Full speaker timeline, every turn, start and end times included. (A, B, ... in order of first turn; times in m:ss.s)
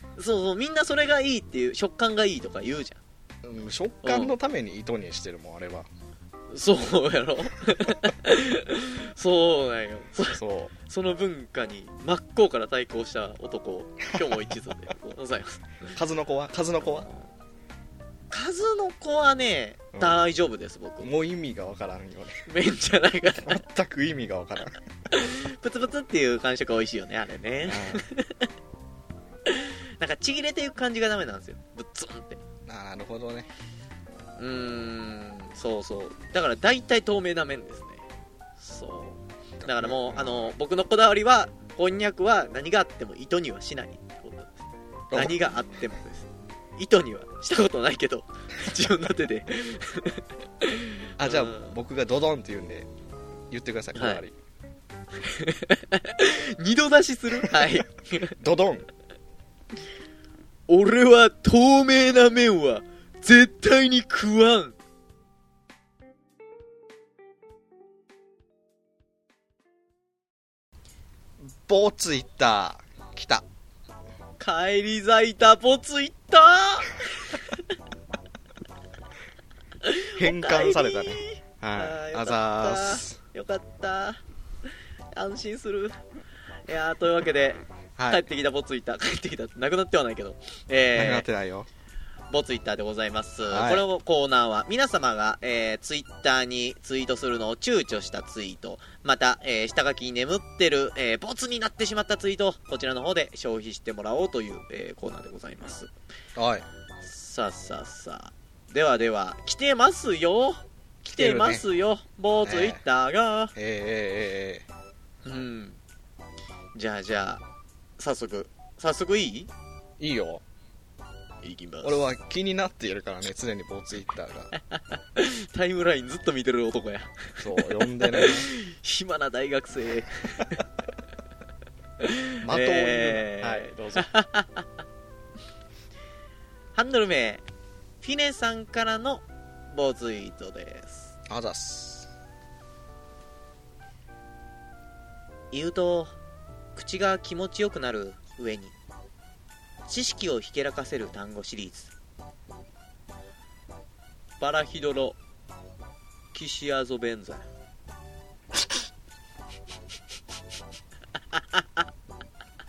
0:00.2-0:03.0 A
0:03.4-0:05.9 B
0:04.0-0:04.3 A
0:06.5-0:15.9 A
0:10.3-0:10.7 B
0:15.9-0:17.1 B
0:17.0-0:17.2 A
0:18.3-0:21.1 A
0:19.9-0:20.2 B
0:21.0-0:22.5 B
0:22.5-0:23.6 A
0:23.4-0:24.8 B
0:25.1-0:28.5 A
0:27.6-0:28.0 B
0:29.5-0:32.4 A
0:32.7-0:33.5 B
0:34.4-0:38.0 A
0:38.6-0:44.6 A
0:39.6-0:40.6 B
0:45.1-0:45.4 B
0:45.1-0:51.7 A
0:51.2-0:52.9 B
0:53.5-0:54.3 B
0:53.9-0:54.2 A
0:55.2-0:58.4 A
0:58.4-0:58.9 B
1:00.7-1:04.8 A
1:11.4-1:13.4 B
1:14.4-1:17.6 A
1:19.8-1:24.2 A
1:20.2-1:23.2 B
1:25.1-1:26.0 A
1:26.7-1:31.3 A
1:28.0-1:28.2 B
1:31.0-1:31.7 B
1:32.3-1:45.9 A
1:33.5-1:33.9 B
1:46.4-1:46.7 B
1:47.0-1:53.5 A
1:51.1-1:51.7 B
1:52.4-1:52.8 B
1:53.6-1:54.7 B
1:55.2-1:55.8 A
1:56.8-1:57.4 A
1:58.0-1:59.5 A
2:00.0-2:00.4 B
2:01.4-2:02.0 A
2:01.8-2:04.5 B
2:04.7-2:10.6 A
2:07.4-2:08.5 B
2:12.0-2:14.7 A
2:12.4-2:14.1 B
2:16.8-2:17.4 A
2:18.0-2:21.1 A
2:21.3-2:22.1 B
2:25.5-2:26.1 A
2:26.8-2:28.7 A
2:29.9-2:31.9 A
2:34.4-2:35.2 A
2:36.3-2:37.4 A
2:41.4-2:41.6 A